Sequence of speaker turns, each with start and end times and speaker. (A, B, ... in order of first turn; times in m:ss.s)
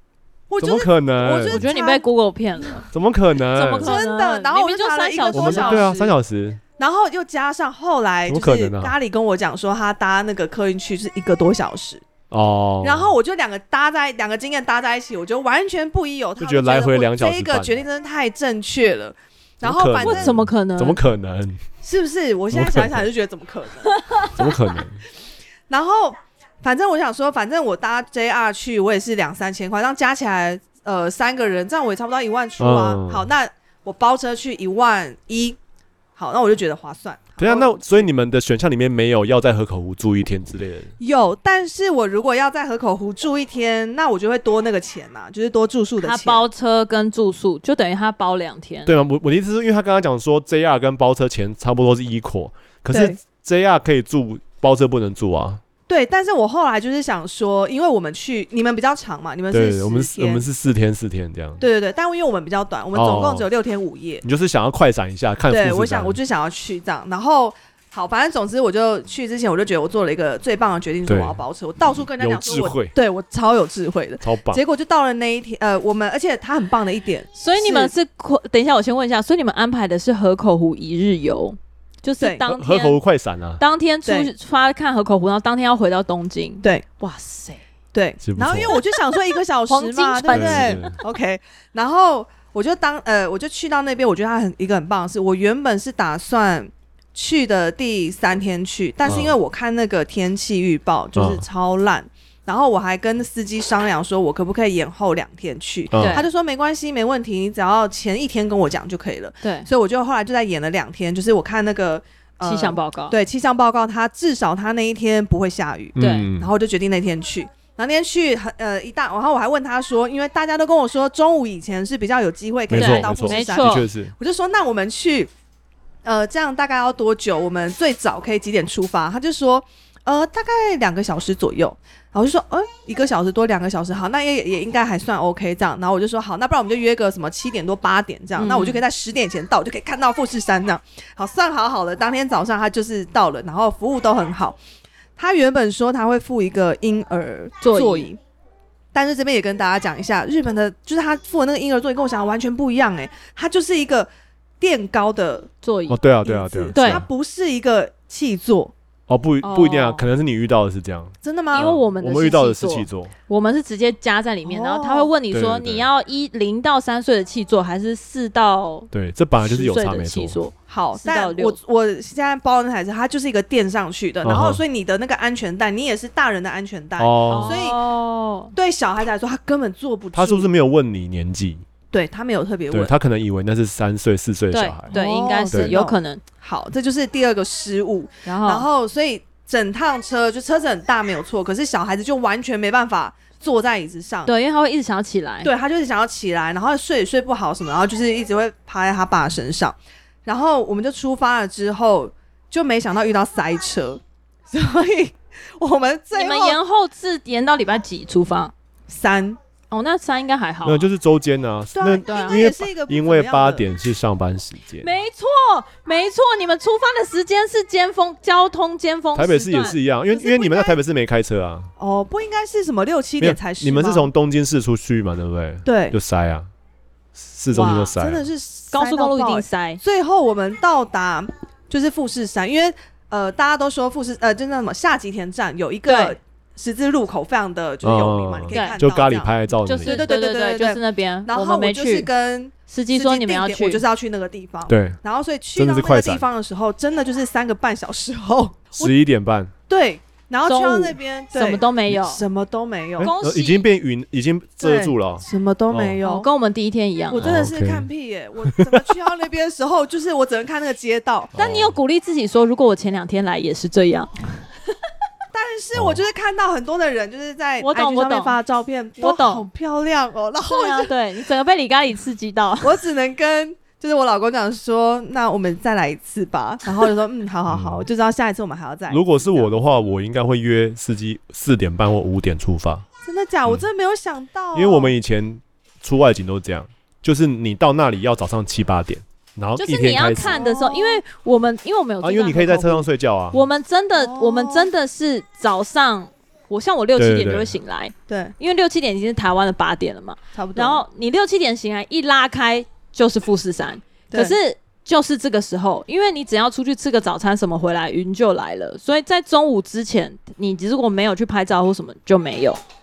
0:00.5-0:02.0 A
0:00.6-0:01.6 B
0:01.5-0:02.9 C
0:02.9-0:04.0 B
0:03.5-0:05.9 C
0:03.8-0:06.1 A
0:05.3-0:06.6 B
0:06.8-0:12.0 A
0:08.3-0:08.9 B
0:12.3-0:13.1 B
0:12.8-0:20.3 A
0:16.4-0:17.7 B
0:19.6-0:21.6 B
0:20.0-0:21.0 C
0:21.8-0:24.2 A
0:22.5-0:23.1 B
0:23.9-0:24.3 C
0:24.3-0:25.0 B
0:25.7-0:35.6 A
0:32.6-0:33.3 B
0:36.2-0:38.1 A
0:37.4-0:40.9 B
0:41.0-0:46.4 A
0:46.0-0:48.9 C
0:48.8-0:55.6 B
0:52.9-0:53.2 A
0:55.9-1:00.4 A
0:59.5-1:01.6 B
1:01.6-1:04.2 A
1:02.9-1:03.4 B
1:04.2-1:06.2 B
1:05.5-1:17.9 A
1:11.1-1:11.4 B
1:11.9-1:12.9 B
1:14.2-1:14.6 B
1:17.3-1:23.0 C
1:22.4-1:23.6 B
1:23.6-1:27.6 C
1:24.0-1:24.3 A
1:27.9-2:05.3 A
1:28.2-1:28.8 B
1:29.7-1:31.0 C
1:30.3-1:31.0 B
1:39.0-1:39.3 B
1:41.1-1:41.4 B
1:45.9-1:46.2 B
1:46.0-1:46.3 C
1:49.4-1:49.7 C
1:52.4-1:53.2 C
1:56.0-1:56.5 B
1:56.0-1:56.3 C
2:02.7-2:04.1 B
2:02.8-2:03.9 C
2:06.0-2:24.6 A
2:18.4-2:18.8 C
2:25.2-2:28.2 A
2:27.6-2:28.1 C
2:28.9-2:34.1 A
2:34.6-2:35.5 A
2:35.6-2:36.0 C
2:35.9-2:37.1 B
2:36.2-2:38.7 A
2:36.7-2:37.0 C
2:39.1-2:43.1 B
2:39.4-2:40.1 C
2:41.2-2:41.7 A
2:41.5-2:51.6 C
2:44.4-2:45.1 A
2:45.3-2:45.8 B
2:48.9-2:50.4 B
2:50.7-2:57.8 A
2:54.2-2:54.6 B
2:57.0-2:57.6 B
2:57.3-2:58.5 C
2:58.5-3:00.5 A
3:00.1-3:01.6 B
3:01.9-3:02.9 A
3:02.7-3:04.9 B
3:04.5-3:06.2 C
3:04.9-3:14.3 A
3:08.2-3:08.6 C
3:14.3-3:15.5 C
3:15.4-3:26.6 A
3:26.1-3:28.5 C
3:28.9-3:29.4 A
3:29.7-3:30.8 C
3:30.6-3:34.9 B
3:31.7-3:33.7 A
3:32.0-3:32.4 C
3:34.8-3:40.7 C
3:39.1-3:41.7 B
3:40.2-3:40.7 A
3:41.8-3:44.1 A
3:43.2-3:46.5 B
3:45.6-3:46.0 A
3:47.1-3:48.3 B
3:47.5-3:59.3 A
3:48.7-3:49.8 C
3:55.9-3:56.2 C
3:57.8-4:00.1 B
3:59.6-4:02.1 C
3:59.8-4:08.9 A
4:02.7-4:03.8 C
4:04.7-4:05.0 B
4:05.6-4:06.2 B
4:08.8-4:09.5 B
4:09.7-4:13.1 A
4:10.5-4:12.2 C
4:13.0-4:16.0 B
4:13.0-4:13.6 C
4:14.6-4:16.3 A
4:16.0-4:17.3 C
4:17.1-4:21.3 A
4:17.2-4:17.9 B
4:18.5-4:18.8 B
4:21.3-4:21.8 B
4:21.4-4:24.1 C
4:25.3-4:30.9 A
4:25.7-4:26.0 B
4:27.6-4:28.4 C
4:29.0-4:29.4 C
4:30.4-4:32.8 C
4:32.6-4:39.5 A
4:37.5-4:37.9 B
4:38.9-4:42.8 B
4:43.0-4:44.9 A
4:44.5-4:50.4 B
4:49.6-5:12.6 C
4:50.1-4:51.0 A
4:52.0-4:53.4 B
4:53.9-4:54.7 A
4:57.0-4:57.6 B
4:58.1-4:58.3 A
5:00.3-5:00.8 A